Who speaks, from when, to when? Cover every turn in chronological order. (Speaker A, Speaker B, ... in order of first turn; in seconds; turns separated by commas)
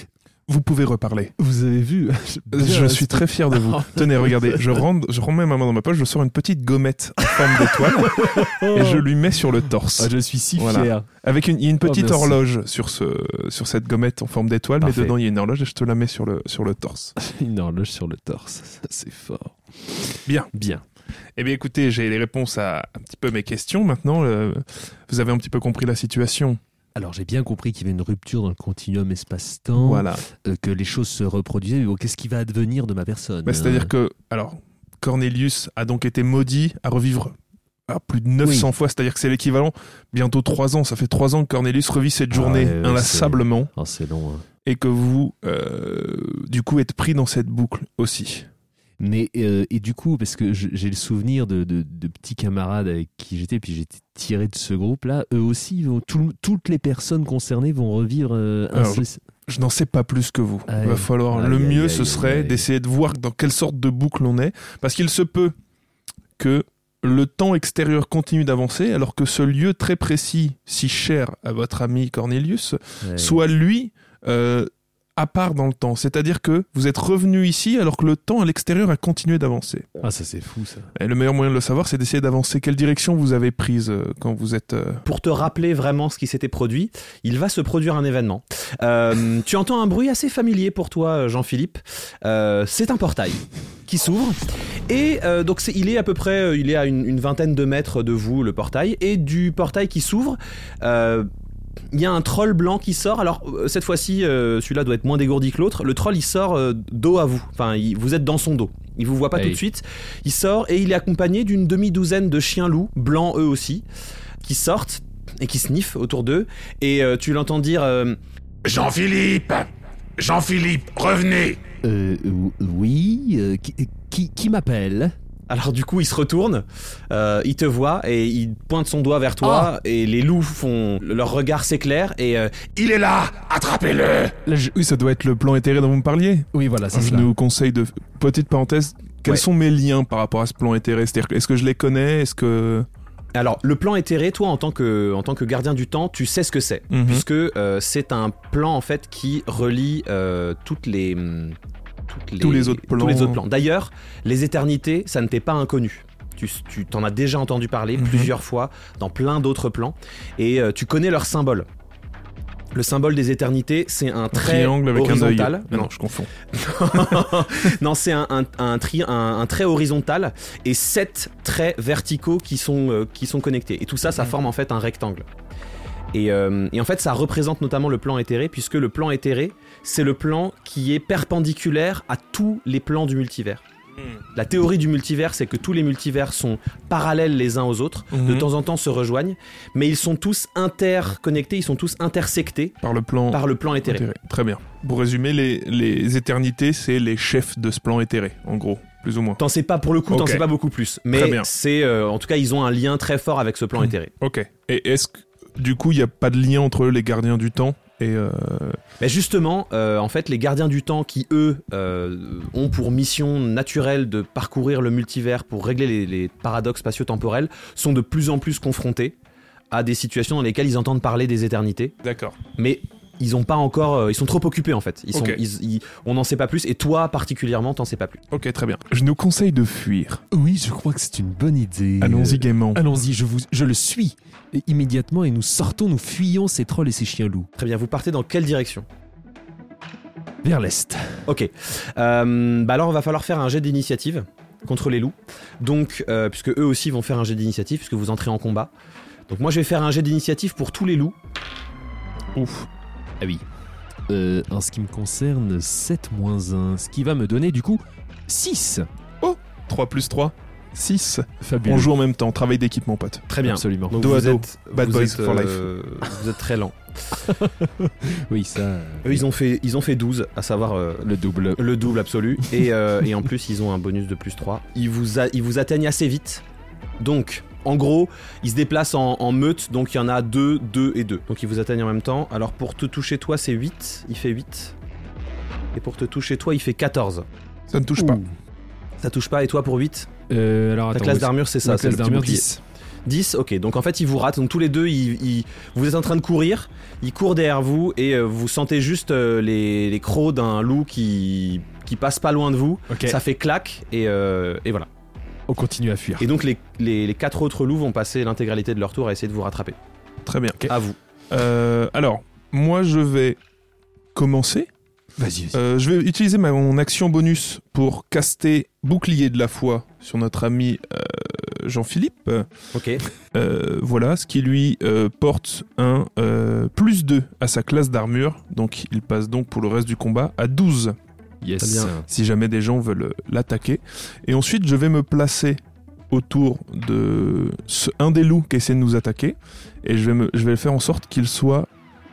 Speaker A: 0.5-1.3, Speaker B: 1.4-4.7, Speaker A: 2.5-17.1, Speaker B: 7.2-9.1, Speaker B: 10.0-11.1, Speaker B: 11.8-12.4, Speaker C: 14.8-15.1, Speaker B: 17.2-20.8, Speaker A: 20.3-20.5, Speaker A: 21.4-26.6, Speaker B: 26.9-33.9, Speaker A: 29.7-30.2, Speaker A: 33.5-37.3, Speaker A: 37.9-43.7, Speaker B: 38.4-38.7, Speaker B: 42.3-44.4, Speaker A: 44.6-48.5, Speaker B: 49.0-59.2, Speaker A: 58.7-65.5, Speaker B: 60.7-62.7, Speaker A: 66.4-79.9, Speaker B: 73.0-73.4, Speaker B: 80.0-80.9, Speaker A: 80.9-85.0, Speaker C: 85.0-101.3, Speaker C: 101.9-113.8, Speaker C: 114.4-118.2, Speaker D: 118.6-121.6, Speaker B: 121.8-125.1, Speaker C: 125.5-132.7, Speaker B: 129.4-129.7, Speaker D: 132.8-134.3, Speaker B: 134.4-134.7, Speaker A: 134.7-142.9, Speaker B: 136.5-137.3, Speaker C: 143.3-151.6, Speaker A: 146.9-147.2, Speaker C: 152.1-161.7, Speaker A: 152.4-153.4, Speaker A: 157.9-158.3, Speaker C: 162.7-165.9, Speaker A: 164.3-166.3, Speaker C: 166.5-175.3, Speaker C: 176.1-183.6, Speaker C: 184.3-192.8, Speaker A: 188.1-188.5, Speaker A: 192.8-199.4, Speaker C: 193.3-194.0, Speaker C: 199.4-204.1, Speaker A: 200.1-200.4, Speaker A: 201.1-201.5, Speaker A: 203.8-208.8, Speaker C: 209.0-219.2, Speaker C: 219.7-221.9, Speaker A: 222.0-222.4, Speaker C: 222.6-228.2, Speaker A: 225.1-225.4, Speaker A: 228.3-230.2, Speaker B: 230.3-237.5, Speaker A: 232.0-232.8, Speaker C: 237.6-238.8, Speaker B: 240.4-241.2, Speaker C: 241.3-248.7, Speaker C: 249.3-251.2, Speaker A: 252.3-252.7, Speaker B: 254.1-258.9, Speaker A: 259.2-263.3, Speaker B: 261.4-261.9, Speaker C: 263.3-267.3, Speaker B: 263.4-264.0, Speaker A: 263.9-265.7, Speaker B: 267.3-269.2, Speaker C: 269.0-276.4, Speaker B: 271.0-271.6, Speaker C: 277.0-284.8, Speaker C: 285.7-287.3, Speaker A: 287.7-288.2, Speaker B: 288.0-288.3, Speaker C: 289.0-290.1, Speaker B: 290.3-292.6, Speaker C: 290.9-292.4, Speaker C: 293.1-304.9, Speaker B: 302.9-303.2, Speaker B: 305.5-306.3, Speaker C: 306.2-309.8, Speaker A: 310.2-310.7, Speaker C: 310.7-311.0, Speaker A: 311.3-313.4, Speaker A: 314.1-314.7, Speaker B: 315.2-315.6, Speaker A: 315.5-322.5, Speaker C: 322.7-323.0, Speaker A: 323.3-330.9, Speaker B: 331.4-332.1, Speaker C: 331.6-331.9, Speaker A: 332.1-341.7